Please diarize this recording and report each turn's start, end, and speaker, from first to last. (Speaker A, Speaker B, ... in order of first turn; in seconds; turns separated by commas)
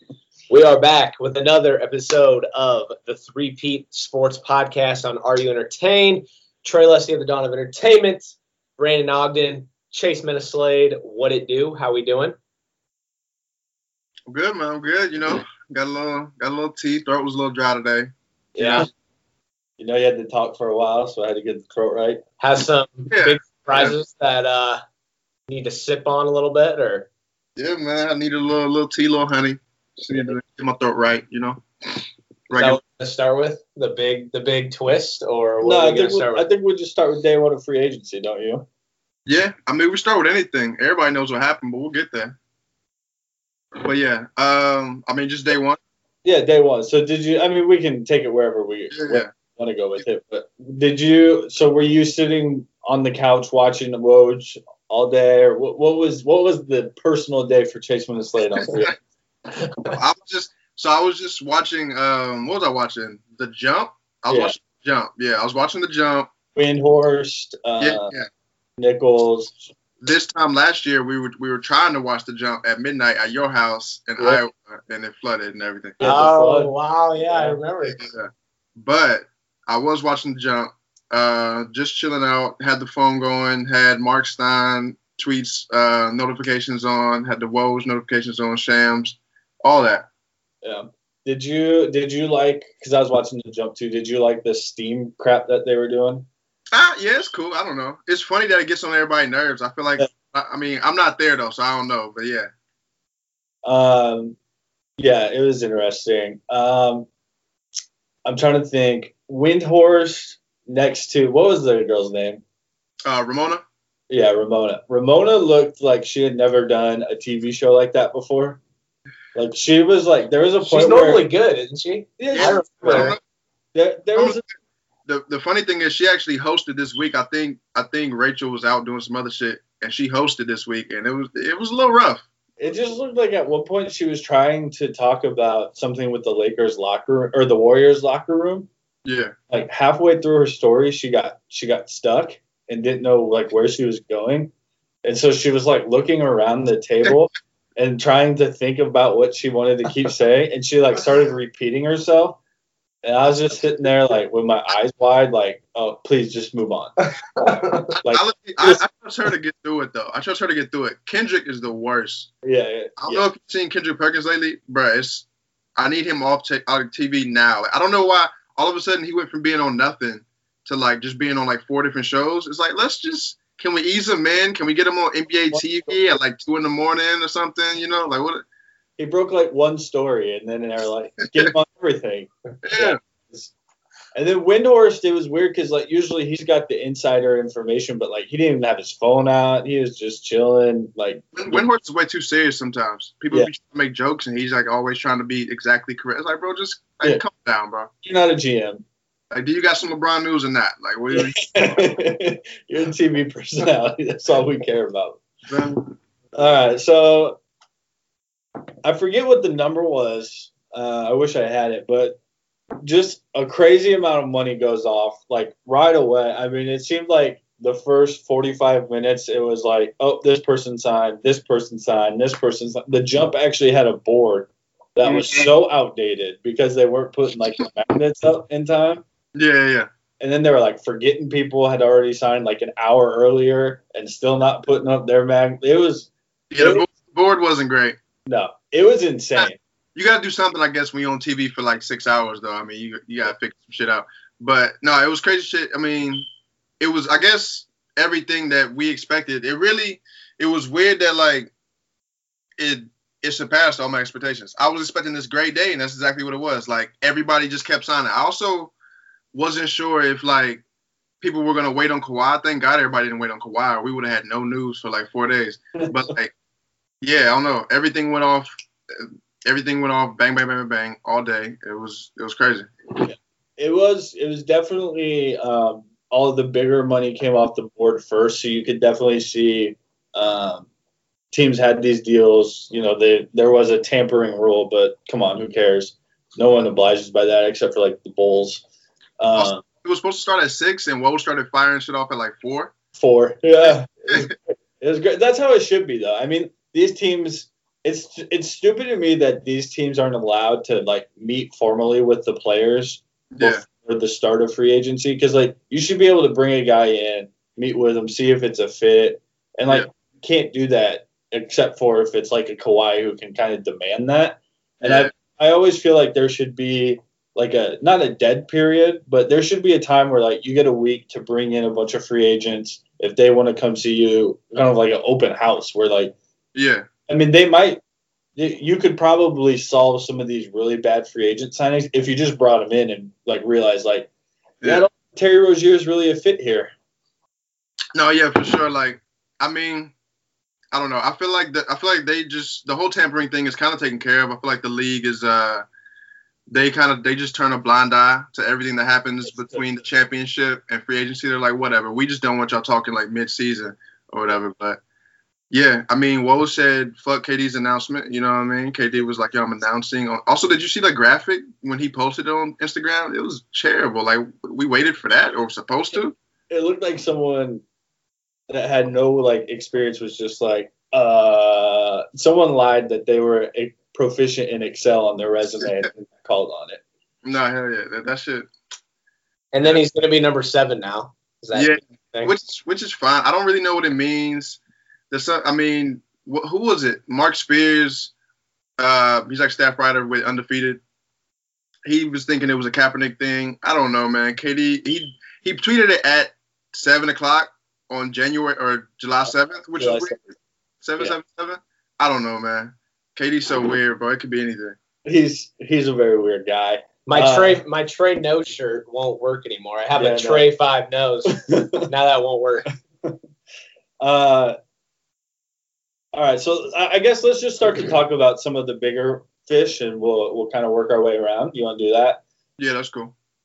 Speaker A: 0.5-12.4, Speaker B: 14.3-18.9, Speaker C: 18.6-18.9, Speaker C: 19.8-22.2, Speaker A: 22.4-24.8, Speaker B: 23.1-23.9, Speaker A: 25.5-27.1, Speaker B: 27.6-31.6, Speaker B: 32.5-32.8, Speaker A: 32.6-36.5, Speaker C: 35.6-38.7, Speaker B: 39.3-42.4, Speaker B: 43.8-45.8, Speaker C: 46.2-59.0, Speaker B: 48.9-49.3, Speaker B: 58.6-58.9, Speaker B: 59.9-66.3, Speaker C: 64.3-64.5, Speaker C: 66.5-68.2, Speaker B: 67.8-68.3, Speaker C: 68.8-69.6, Speaker B: 70.0-76.1, Speaker C: 76.0-76.7, Speaker A: 76.0-78.0, Speaker B: 78.0-90.1, Speaker C: 90.6-96.3, Speaker B: 96.7-102.5, Speaker C: 103.7-104.4, Speaker C: 105.0-107.1, Speaker C: 108.2-112.4, Speaker B: 113.0-113.6, Speaker C: 114.1-118.6, Speaker C: 119.3-121.3, Speaker A: 120.6-123.1, Speaker C: 122.2-123.2, Speaker B: 122.3-123.2, Speaker C: 123.7-124.4, Speaker B: 124.2-124.4, Speaker B: 125.1-132.2, Speaker C: 132.6-138.7, Speaker B: 139.1-139.3, Speaker C: 139.5-144.5, Speaker C: 145.0-152.4, Speaker C: 153.0-157.0, Speaker A: 157.4-157.9, Speaker B: 157.9-162.3, Speaker C: 158.1-158.8, Speaker C: 162.4-163.3, Speaker B: 163.0-165.2, Speaker B: 165.8-178.4, Speaker C: 179.0-183.5, Speaker B: 182.6-183.0, Speaker C: 184.2-191.6, Speaker B: 191.3-197.9, Speaker C: 198.0-198.8, Speaker B: 199.3-201.5, Speaker C: 201.1-205.2, Speaker B: 205.5-205.8, Speaker C: 206.3-207.4, Speaker C: 208.8-212.2, Speaker C: 212.8-229.0, Speaker B: 225.1-225.5, Speaker B: 229.3-229.9, Speaker C: 230.2-236.8, Speaker B: 236.5-238.0, Speaker C: 238.3-239.6, Speaker B: 239.4-246.3, Speaker B: 246.8-251.5, Speaker B: 252.6-258.7, Speaker B: 259.3-260.6, Speaker B: 261.2-266.3, Speaker B: 267.0-272.7, Speaker C: 273.0-280.7, Speaker C: 281.3-288.6, Speaker C: 289.2-289.6, Speaker B: 289.3-292.7, Speaker C: 292.9-326.1, Speaker B: 303.3-303.6, Speaker B: 314.8-315.1, Speaker B: 326.6-326.9, Speaker C: 327.1-327.8, Speaker C: 328.4-334.1, Speaker B: 334.6-334.9, Speaker C: 334.6-336.7, Speaker B: 337.9-339.9, Speaker B: 340.7-345.6, Speaker B: 346.5-354.8, Speaker B: 355.5-366.1, Speaker C: 366.5-367.6, Speaker C: 368.5-376.8, Speaker B: 377.2-378.5, Speaker A: 379.5-382.4, Speaker B: 381.6-384.6, Speaker B: 385.1-388.1, Speaker B: 388.8-390.8, Speaker B: 391.9-400.3, Speaker C: 399.8-400.2, Speaker B: 400.8-404.8, Speaker C: 405.1-407.6, Speaker A: 407.1-412.7, Speaker C: 410.0-410.5, Speaker C: 411.5-411.9, Speaker C: 414.0-414.6, Speaker C: 416.1-422.2, Speaker B: 422.6-423.1